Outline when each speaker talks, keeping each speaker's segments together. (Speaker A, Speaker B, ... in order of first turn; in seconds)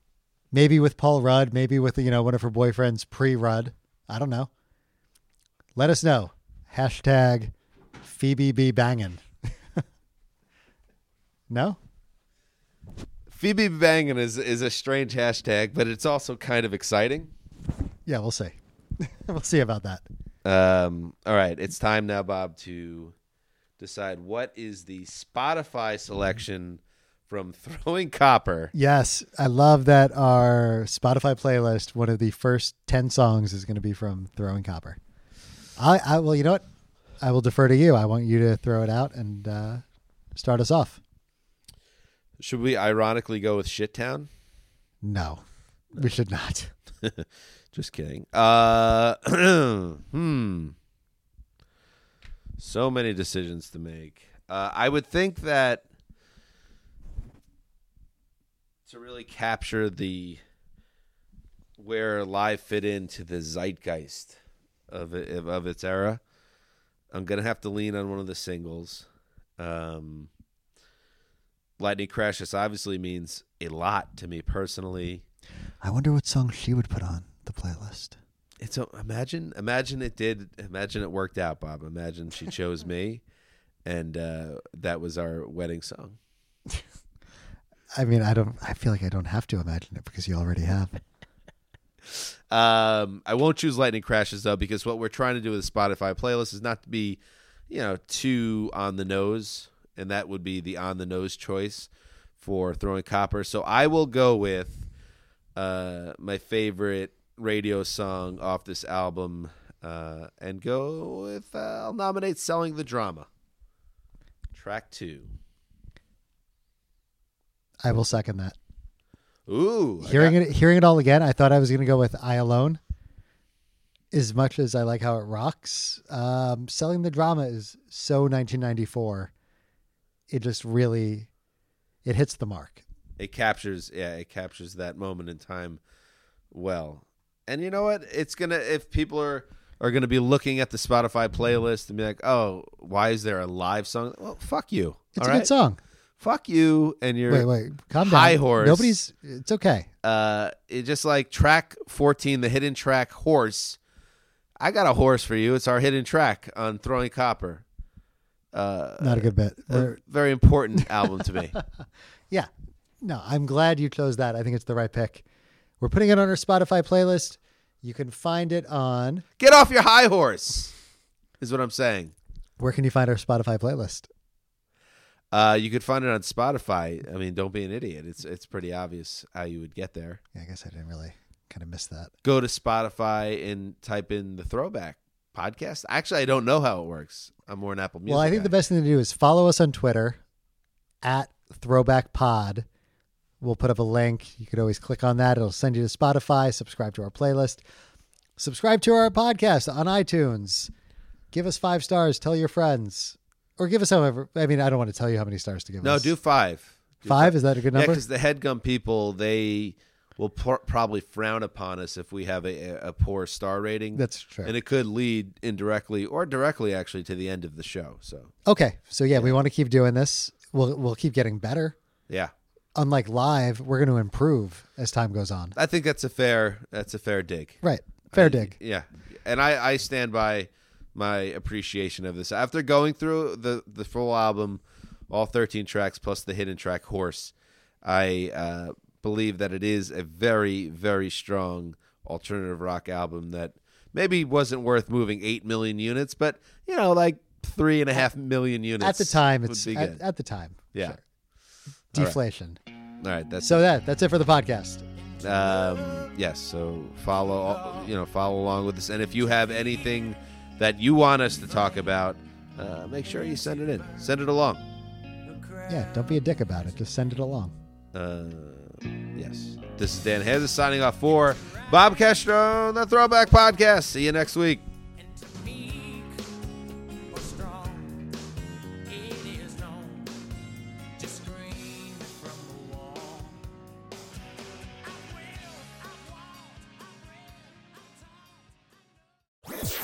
Speaker A: 0.5-4.5, 5.8-9.2, 11.5-11.8, 18.1-20.0, 28.7-35.0, 35.8-36.6, 37.2-39.8, 40.3-41.0, 45.0-45.4, 45.9-46.7, 75.8-78.2, 87.9-91.0, 117.8-118.5, 120.0-122.8, 124.1-129.3, 130.3-131.3, 132.0-132.8, 145.2-145.8, 147.3-149.9, 159.0-160.0, 163.0-165.2, 165.8-169.2, 172.6-174.1, 180.3-182.1, 188.1-190.2, 191.0-192.7, 193.4-197.6, 198.4-200.7, 201.3-206.1, 207.0-208.0, 213.9-214.5, 218.4-221.8, 222.7-225.6, 227.6-228.5, 248.8-251.0, 251.9-252.6, 253.4-254.8, 265.7-267.5
Speaker B: 13.3-17.3, 20.4-23.1, 23.8-28.7, 42.4-44.3, 47.0-50.7, 52.6-55.8, 58.9-60.4, 61.8-64.4, 64.9-66.2, 67.1-69.1, 69.6-70.3, 71.8-75.2, 78.6-83.2, 83.8-86.2, 92.1-104.8, 105.5-113.3, 114.5-115.3, 119.5-120.4, 133.2-135.8, 136.5-145.5, 146.2-148.9, 150.0-153.8, 154.6-157.6, 158.5-161.5, 169.4-170.7, 171.4-172.1, 175.3-180.2, 182.2-188.5, 205.8-218.3, 219.1-219.4, 225.6-227.6, 228.1-250.0, 251.9-252.2, 253.0-253.6, 255.2-264.6, 267.9-274.6
Speaker C: 265.2-265.8, 275.0-276.3, 277.1-278.1, 278.9-280.1, 280.9-283.4